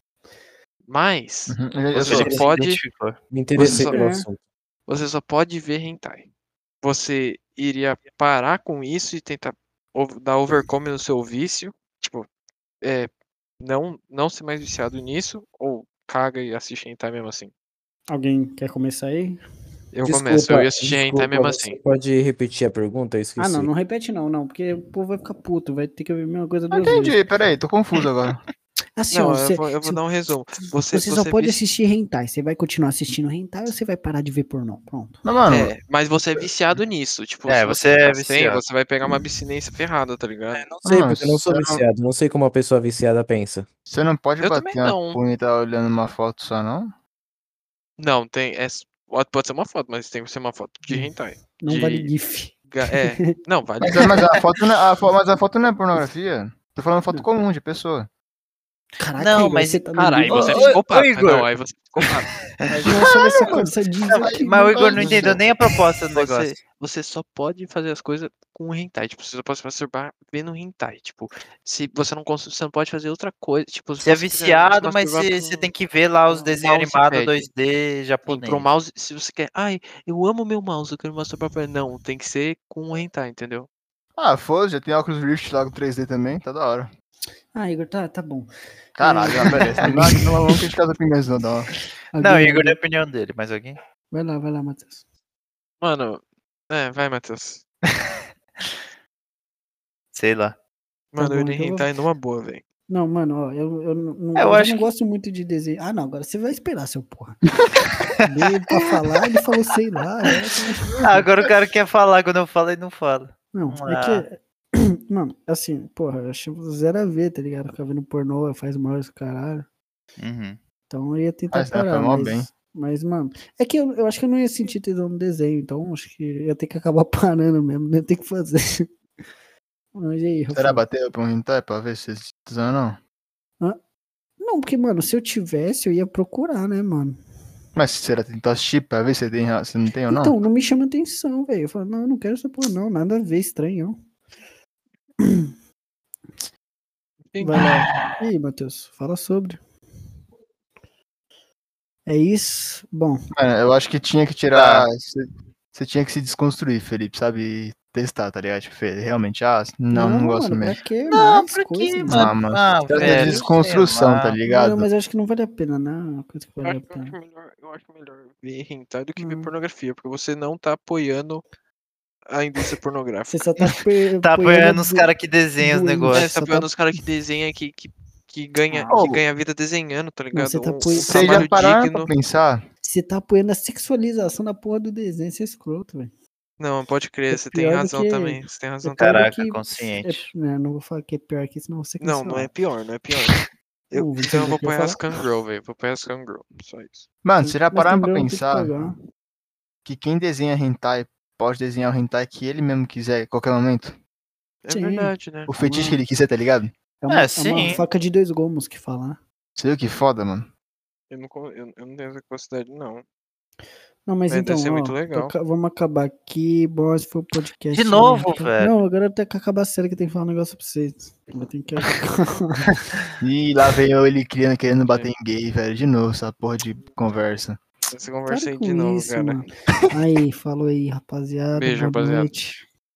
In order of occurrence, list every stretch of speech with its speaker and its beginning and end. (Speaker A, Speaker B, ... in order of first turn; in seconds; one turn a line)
Speaker A: 0.9-2.8
Speaker B: 1.5-2.4
Speaker C: 2.0-3.2
Speaker D: 2.1-2.4
Speaker D: 3.3-4.4
Speaker E: 3.6-4.3
Speaker A: 3.6-4.1
Speaker A: 4.9-6.3
Speaker A: 6.8-12.3
Speaker A: 12.8-17.5
Speaker E: 18.1-19.4
Speaker A: 19.9-21.8
Speaker D: 20.1-23.7
Speaker E: 23.4-27.2
Speaker B: 26.7-28.4
Speaker E: 29.0-30.0
Speaker A: 29.1-31.6
Speaker E: 30.9-35.2
Speaker B: 35.2-35.7
Speaker A: 35.5-40.6
Speaker C: 37.5-38.6
Speaker D: 40.5-43.7
Speaker B: 40.8-41.8
Speaker B: 43.9-46.9
Speaker A: 44.4-45.2
Speaker A: 48.0-52.1
Speaker E: 50.9-52.6
Speaker A: 52.7-54.3
Speaker B: 53.8-58.1
Speaker E: 59.0-60.8
Speaker C: 59.1-62.8
Speaker A: 59.9-63.0
Speaker B: 62.7-65.4
Speaker E: 62.8-65.4
Speaker C: 64.1-66.5
Speaker A: 64.8-65.4
Speaker A: 66.1-75.7
Speaker C: 74.0-78.7
Speaker A: 76.3-77.5
Speaker A: 78.2-83.7
Speaker B: 84.2-86.9
Speaker E: 87.5-88.5
Speaker B: 89.0-91.7
Speaker E: 89.0-90.6
Speaker E: 92.1-92.8
Speaker C: 92.2-93.8
Speaker E: 94.1-95.0
Speaker A: 95.8-97.6
Speaker C: 97.9-98.2
Speaker C: 100.1-100.5
Speaker A: 101.1-102.6
Speaker E: 101.2-101.9
Speaker E: 102.9-107.5
Speaker C: 104.3-104.9
Speaker E: 108.2-111.2
Speaker C: 111.0-114.2
Speaker E: 113.5-119.7
Speaker C: 120.2-120.6
Speaker E: 120.9-128.8
Speaker B: 121.5-122.5
Speaker E: 129.9-130.8
Speaker B: 130.5-133.0
Speaker E: 134.4-137.2
Speaker B: 137.7-140.4
Speaker E: 140.1-144.0
Speaker E: 145.2-145.5
Speaker A: 147.3-147.9
Speaker E: 147.4-149.6
Speaker E: 152.1-153.2
Speaker B: 153.3-160.8
Speaker C: 154.5-154.9
Speaker E: 159.9-163.5
Speaker C: 161.1-164.4
Speaker B: 162.0-164.9
Speaker E: 164.4-167.2
Speaker A: 166.6-171.4
Speaker E: 169.2-169.5
Speaker A: 172.3-173.4
Speaker E: 173.3-176.8
Speaker C: 174.2-176.3
Speaker A: 176.1-182.1
Speaker E: 178.7-179.0
Speaker B: 178.9-179.2
Speaker E: 180.3-181.5
Speaker B: 181.0-182.6
Speaker E: 182.8-186.1
Speaker A: 186.6-189.1
Speaker E: 187.3-192.5
Speaker C: 189.0-190.3
Speaker A: 192.0-197.1
Speaker E: 193.9-195.0
Speaker B: 197.2-198.7
Speaker E: 197.4-198.9
Speaker B: 199.8-204.0
Speaker A: 204.6-205.5
Speaker E: 204.7-206.0
Speaker B: 205.5-206.7
Speaker E: 207.0-209.2
Speaker C: 207.1-207.8
Speaker B: 209.6-210.5
Speaker A: 211.1-213.0
Speaker E: 214.1-222.8
Speaker A: 214.3-215.3
Speaker C: 217.7-218.7
Speaker B: 223.2-227.6
Speaker A: 227.9-229.5
Speaker E: 228.3-232.7
Speaker A: 231.5-232.3